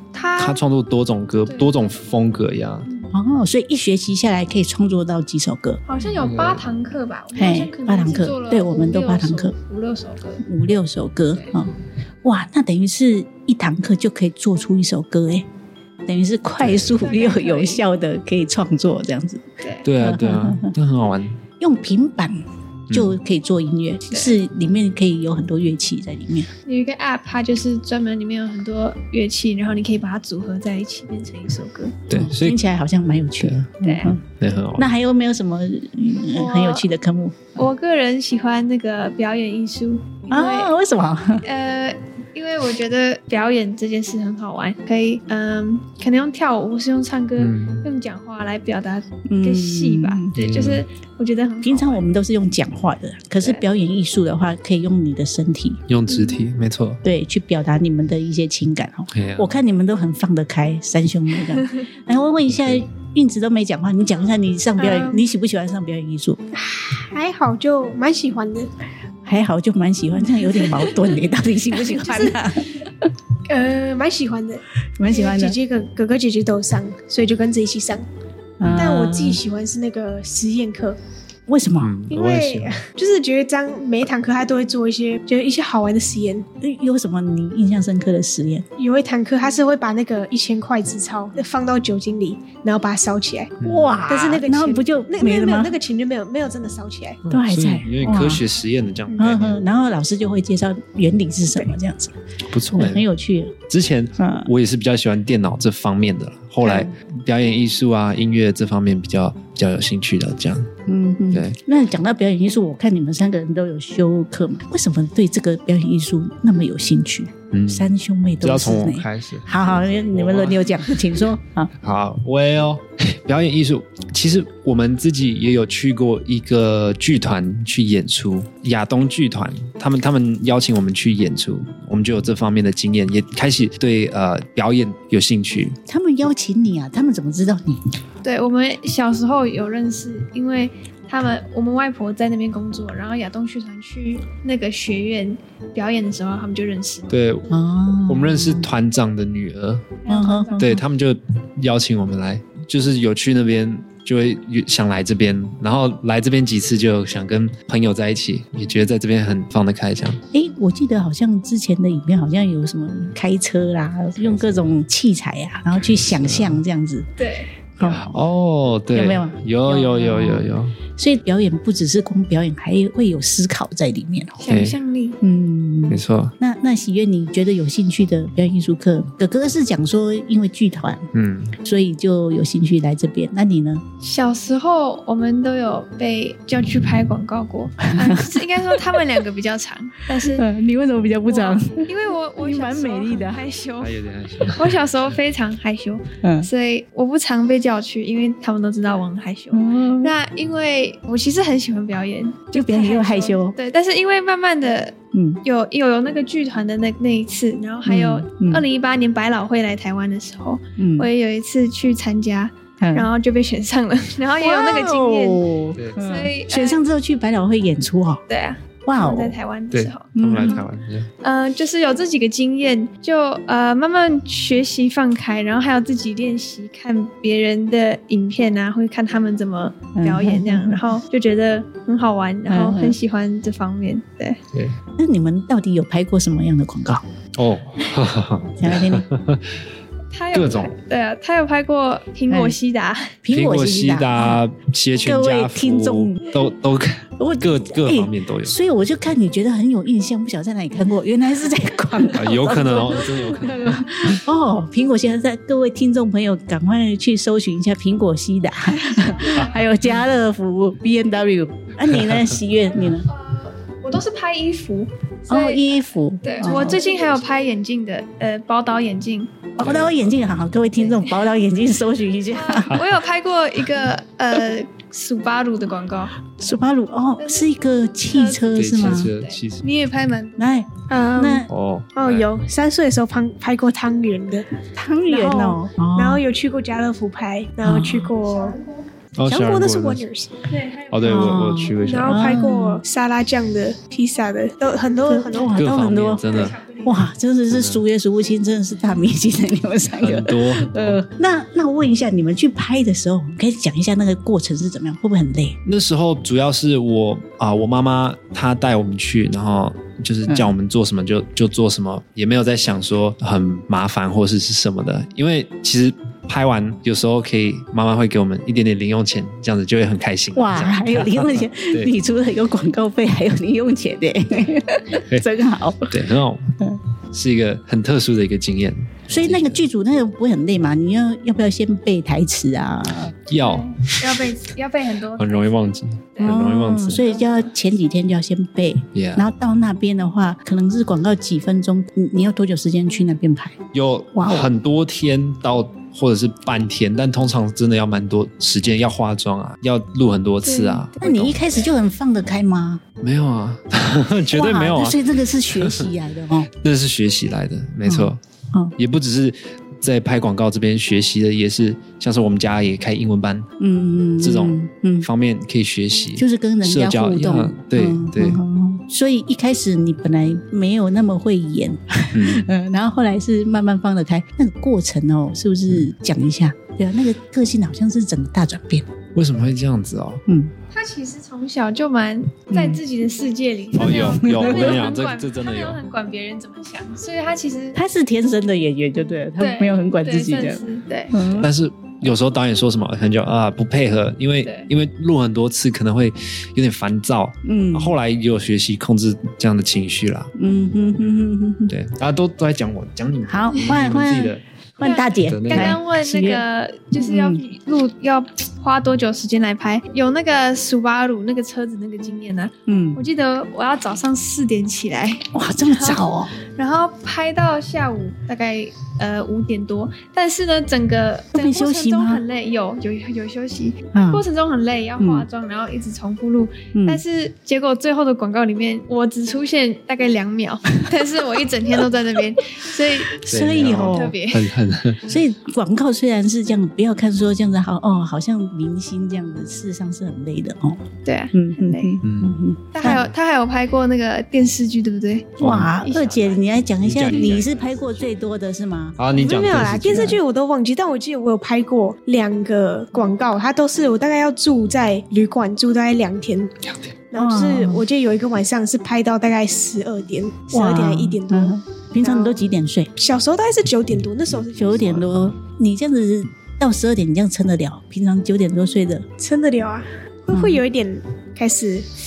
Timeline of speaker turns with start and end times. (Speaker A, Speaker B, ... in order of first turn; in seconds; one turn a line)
Speaker A: 0.1-0.6
Speaker B: 0.4-2.9
Speaker A: 1.5-1.7
Speaker A: 2.9-3.1
Speaker C: 3.1-5.8
Speaker A: 5.8-10.4
Speaker B: 6.2-6.7
Speaker C: 7.3-9.6
Speaker C: 10.4-15.4
Speaker C: 16.1-19.4
Speaker B: 16.6-17.1
Speaker A: 17.0-17.8
Speaker B: 19.8-21.3
Speaker C: 20.0-20.7
Speaker C: 21.6-26.5
Speaker B: 22.9-23.2
Speaker A: 24.1-24.4
Speaker A: 26.6-31.9
Speaker B: 32.1-32.6
Speaker C: 32.1-34.2
Speaker B: 33.4-34.9
Speaker A: 33.8-34.1
Speaker C: 34.8-37.4
Speaker A: 36.3-36.9
Speaker A: 37.5-40.8
Speaker C: 40.3-41.4
Speaker A: 41.4-52.0
Speaker B: 47.4-47.9
Speaker C: 49.3-50.3
Speaker B: 50.4-50.8
Speaker C: 51.6-55.8
Speaker B: 55.9-57.0
Speaker A: 56.1-56.4
Speaker C: 57.0-66.4
Speaker B: 59.1-59.6
Speaker B: 62.5-62.8
Speaker D: 64.8-65.2
Speaker D: 66.5-68.7
Speaker C: 69.2-72.8
Speaker D: 73.5-78.0
Speaker C: 75.0-75.6
Speaker C: 78.6-79.4
Speaker B: 78.6-78.9
Speaker D: 78.6-81.0
Speaker C: 81.5-81.9
Speaker B: 81.8-82.8
Speaker D: 82.1-86.5
Speaker C: 86.6-88.6
Speaker D: 88.8-93.5
Speaker B: 93.6-94.1
Speaker C: 93.6-95.7
Speaker D: 94.1-97.2
Speaker B: 97.2-99.5
Speaker C: 97.3-98.4
Speaker D: 99.1-99.5
Speaker C: 99.2-102.1
Speaker B: 102.5-103.0
Speaker C: 102.7-103.6
Speaker B: 103.7-110.7
Speaker C: 104.2-104.5
Speaker C: 106.6-106.9
Speaker C: 110.9-121.7
Speaker B: 111.3-111.6
Speaker B: 117.5-117.9
Speaker B: 118.4-121.3
Speaker B: 121.8-135.8
Speaker C: 135.9-137.8
Speaker A: 138.2-147.2
Speaker B: 147.1-147.5
Speaker C: 147.5-148.7
Speaker B: 148.1-149.9
Speaker A: 150.0-150.7
Speaker C: 150.1-150.8
Speaker B: 150.6-160.2
Speaker C: 160.3-167.1
Speaker B: 164.2-164.7
Speaker B: 165.7-166.6
Speaker A: 167.2-167.5
Speaker C: 167.8-168.2
Speaker B: 167.8-170.8
Speaker C: 168.9-174.4
Speaker A: 174.4-175.2
Speaker B: 174.5-174.8
Speaker C: 175.2-181.1
Speaker B: 175.9-176.3
Speaker B: 181.1-181.6
Speaker C: 181.6-183.8
Speaker A: 184.0-190.4
Speaker C: 187.9-189.0
Speaker C: 190.2-191.8
Speaker A: 191.2-193.9
Speaker C: 192.3-193.4
Speaker B: 193.8-194.8
Speaker A: 194.5-215.4
Speaker C: 196.2-196.5
Speaker C: 199.5-200.1
Speaker C: 202.5-203.6
Speaker C: 205.1-205.4
Speaker C: 207.8-208.7
Speaker C: 210.8-211.1
Speaker C: 212.8-213.1
Speaker C: 214.4-218.2
Speaker B: 215.7-216.0
Speaker A: 215.9-216.8
Speaker A: 218.3-220.6
Speaker C: 218.8-219.4
Speaker B: 219.7-221.1
Speaker C: 220.1-220.6
Speaker A: 221.2-234.4
Speaker C: 229.9-231.0
Speaker C: 232.5-233.0
Speaker C: 235.0-237.0
Speaker B: 237.4-239.4
Speaker C: 238.6-239.1
Speaker A: 240.1-243.1
Speaker B: 240.3-240.7
Speaker C: 242.3-242.6
Speaker C: 243.2-244.4
Speaker B: 243.3-248.6
Speaker C: 245.0-246.5
Speaker C: 247.2-263.1
Speaker B: 252.1-254.2
Speaker B: 261.9-262.3
Speaker A: 262.8-265.6
Speaker C: 265.3-266.8
Speaker A: 266.2-269.7
Speaker C: 269.6-272.8
Speaker B: 269.6-270.1
Speaker A: 270.8-271.1
Speaker A: 272.3-276.1
Speaker C: 276.4-279.1
Speaker A: 277.2-277.4
Speaker A: 278.1-280.6
Speaker B: 278.5-279.6
Speaker C: 280.4-281.5
Speaker D: 280.9-284.5
Speaker B: 281.5-282.3
Speaker C: 284.7-286.2
Speaker D: 285.1-288.8
Speaker C: 287.6-288.1
Speaker B: 289.2-290.0
Speaker D: 289.3-290.3
Speaker A: 290.5-291.1
Speaker B: 290.9-292.4
Speaker C: 291.0-292.8
Speaker D: 291.8-295.6
Speaker C: 295.0-305.6
Speaker B: 295.4-296.6
Speaker A: 296.4-297.0
Speaker B: 297.5-297.8
Speaker B: 299.9-301.0
Speaker B: 305.6-321.9
Speaker C: 310.3-310.5
Speaker C: 320.3-326.0
Speaker B: 325.9-326.5
Speaker B: 327.1-329.6
Speaker C: 329.1-333.1
Speaker B: 333.3-334.2
Speaker A: 333.3-335.6
Speaker B: 335.1-337.1
Speaker C: 336.2-343.6
Speaker A: 336.9-337.5
Speaker B: 338.9-339.3
Speaker B: 343.7-351.4
Speaker C: 344.1-344.5
Speaker A: 350.4-351.0
Speaker C: 351.0-352.8
Speaker B: 353.0-355.0
Speaker C: 354.3-356.5
Speaker B: 355.5-355.9
Speaker B: 356.6-358.2
Speaker C: 357.8-358.7
Speaker B: 358.8-363.5
Speaker C: 363.6-365.1
Speaker B: 364.2-368.4
Speaker C: 366.2-378.9
Speaker B: 372.1-372.5
Speaker B: 379.1-380.2
Speaker C: 380.3-380.5
Speaker A: 380.7-387.8
Speaker C: 382.5-382.8
Speaker B: 383.7-385.8
Speaker C: 383.8-384.8
Speaker C: 387.7-391.5
Speaker A: 389.4-391.4
Speaker B: 391.4-400.3
Speaker A: 394.4-394.7
Speaker C: 397.4-398.0
Speaker C: 400.4-401.7
Speaker B: 401.7-404.4
Speaker C: 403.3-407.4
Speaker A: 403.5-403.9
Speaker A: 404.8-433.2
Speaker B: 405.3-405.8
Speaker C: 412.7-413.0
Speaker C: 415.3-416.3
Speaker C: 421.3-422.2
Speaker C: 423.9-424.2
Speaker C: 425.0-425.3
Speaker C: 426.7-427.0
Speaker C: 433.2-434.1
Speaker B: 433.2-435.1
Speaker A: 433.8-434.5
Speaker C: 435.1-443.0
Speaker A: 441.0-442.0
Speaker B: 442.0-443.1
Speaker A: 442.7-446.5
Speaker B: 445.4-445.7
Speaker C: 445.4-449.0
Speaker B: 446.8-447.8
Speaker B: 449.0-450.2
Speaker D: 449.1-456.5
Speaker C: 449.9-450.2
Speaker D: 457.1-464.9
Speaker C: 457.2-457.8
Speaker C: 460.5-462.9
Speaker B: 464.3-465.4
Speaker C: 464.5-469.0
Speaker D: 469.2-471.9
Speaker C: 470.3-470.6